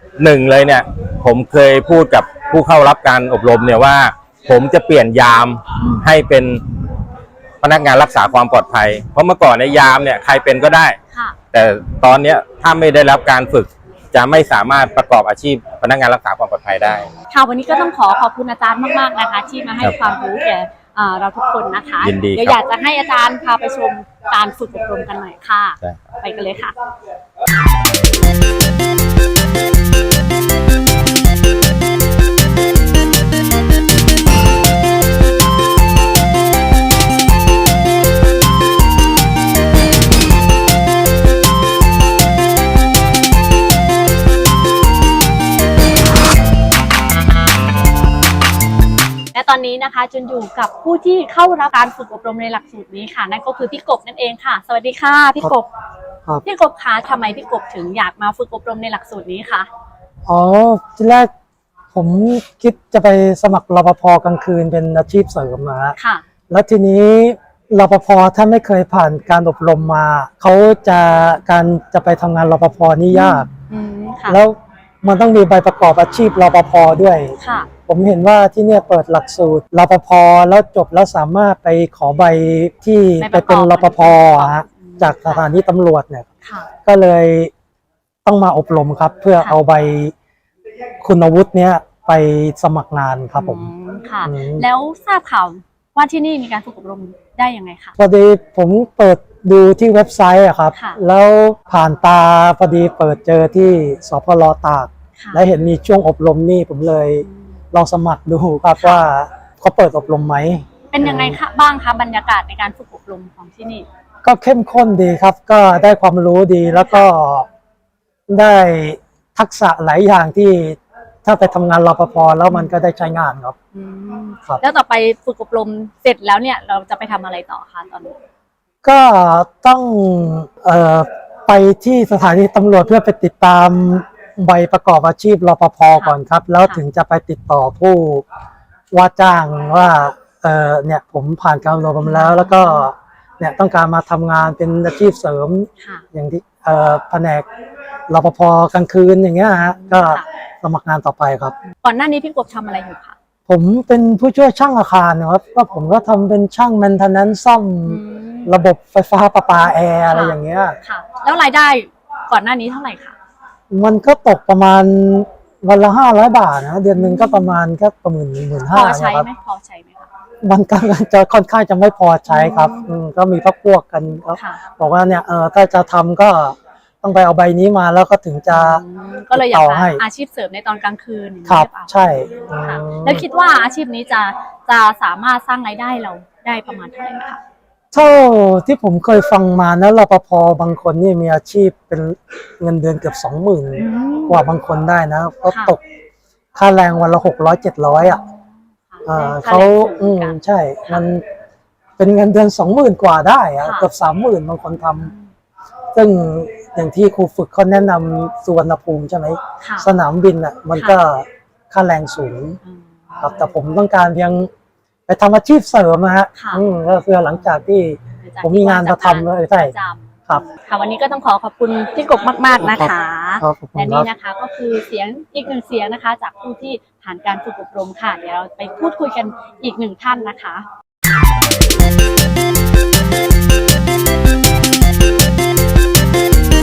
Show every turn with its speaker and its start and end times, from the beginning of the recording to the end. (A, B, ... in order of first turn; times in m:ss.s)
0:00.2-0:06.6 A
0:05.8-0:06.1 B
0:07.6-0:11.0 A
0:11.1-0:11.4 B
0:11.5-0:17.1 A
0:17.3-0:26.7 B
0:22.0-0:22.6 A
0:25.8-0:26.1 A
0:49.3-0:55.7 B
0:56.4-0:59.7 B
1:00.2-1:01.3 C
1:01.9-1:06.0 C
1:06.0-1:06.2 B
1:06.5-1:13.5 C
1:13.1-1:14.4 B
1:14.3-1:17.3 C
1:17.4-1:17.7 B
1:17.9-1:26.3 C
1:23.2-1:25.5 B
1:26.4-1:26.7 B
1:26.8-1:27.5 C
1:28.2-1:30.1 C
1:31.0-1:33.7 C
1:33.3-1:38.0 B
1:34.2-1:34.7 C
1:38.0-1:51.4 C
1:40.7-1:41.0 B
1:45.2-1:45.4 B
1:47.2-1:47.5 B
1:48.8-1:49.1 B
1:50.9-1:53.8 B
1:54.2-1:57.5 C
1:56.6-1:57.1 B
1:58.3-2:03.6 C
2:02.5-2:02.8 B
2:03.7-2:08.1 B
2:08.8-2:18.2 C
2:15.9-2:16.8 B
2:18.9-2:27.4 C
2:22.0-2:22.9 B
2:25.8-2:26.0 B
2:28.1-2:31.5 C
2:29.5-2:30.2 B
2:31.8-2:33.1 B
2:33.5-2:40.8 C
2:37.8-2:38.6 B
2:40.0-2:43.1 B
2:43.7-2:49.3 C
2:46.9-2:47.6 B
2:48.7-2:50.1 B
2:50.4-3:00.0 C
2:52.3-2:52.9 B
2:54.4-2:54.6 B
2:58.5-3:07.4 B
3:01.4-3:03.2 C
3:07.9-3:15.8 C
3:13.8-3:14.4 B
3:15.5-3:15.8 B
3:16.5-3:18.2 C
3:18.0-3:21.1 B
3:19.0-3:21.2 C
3:22.0-3:25.1 C
3:23.6-3:23.9 B
3:25.0-3:25.3 B
3:25.9-3:32.6 C
3:29.6-3:29.9 B
3:30.7-3:31.0 B
3:32.6-3:33.5 B
3:33.2-3:34.5 C
3:35.1-3:39.7 C
3:36.3-3:36.6 B
3:38.2-3:50.6 B
3:42.6-3:44.1 C